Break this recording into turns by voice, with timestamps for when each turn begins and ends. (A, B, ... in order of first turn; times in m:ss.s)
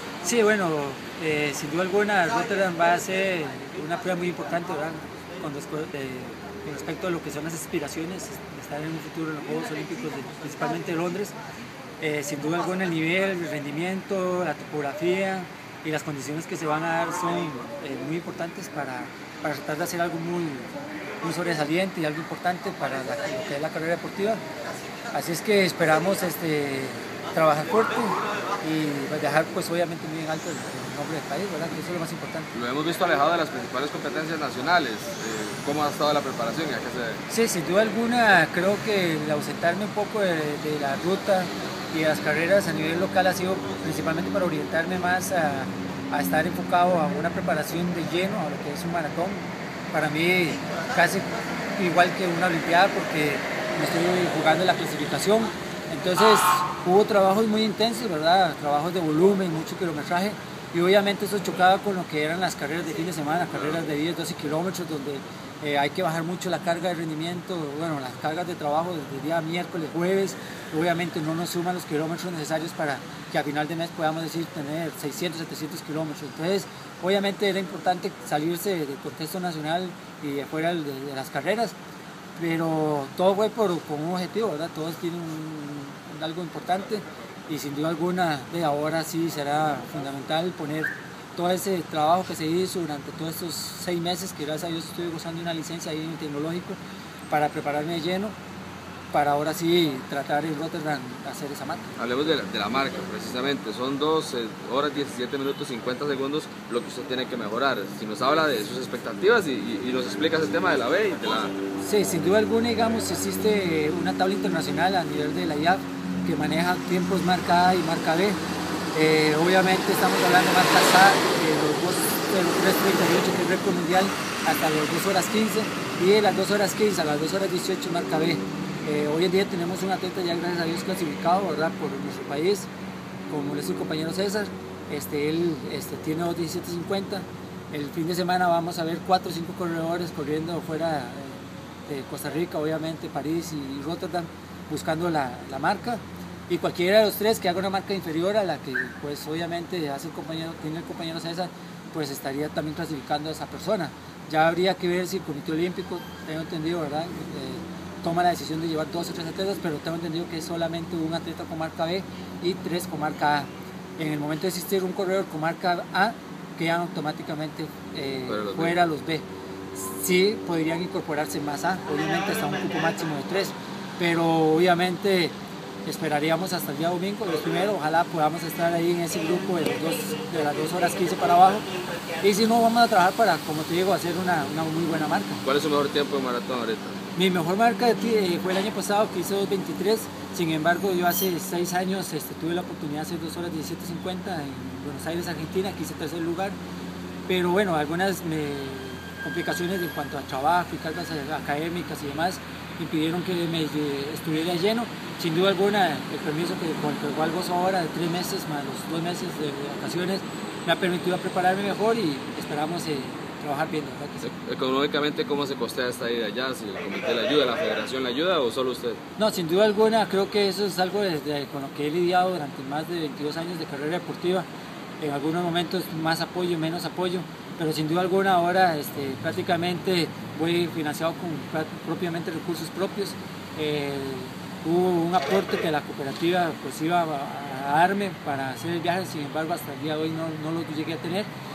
0:00.2-0:11.4 A
0:12.0-0:20.7 A
0:21.2-0:24.4 A
0:25.1-0:32.5 A
0:32.5-0:37.2 B
0:37.3-1:21.8 A
1:22.4-1:36.8 A
1:37.3-1:38.3 A
1:39.1-1:41.9 A
1:42.0-1:51.6 B
1:51.8-1:58.4 A
1:58.9-2:12.7 A
2:13.3-2:55.3 A
2:48.3-2:48.8 B
2:55.9-3:01.7 A
3:02.2-3:05.4 A
3:05.4-3:07.0 B
3:07.2-3:16.6 A
3:17.3-3:34.3 A
3:34.2-3:39.0 B
3:39.2-3:44.5 A
3:45.0-4:01.3 A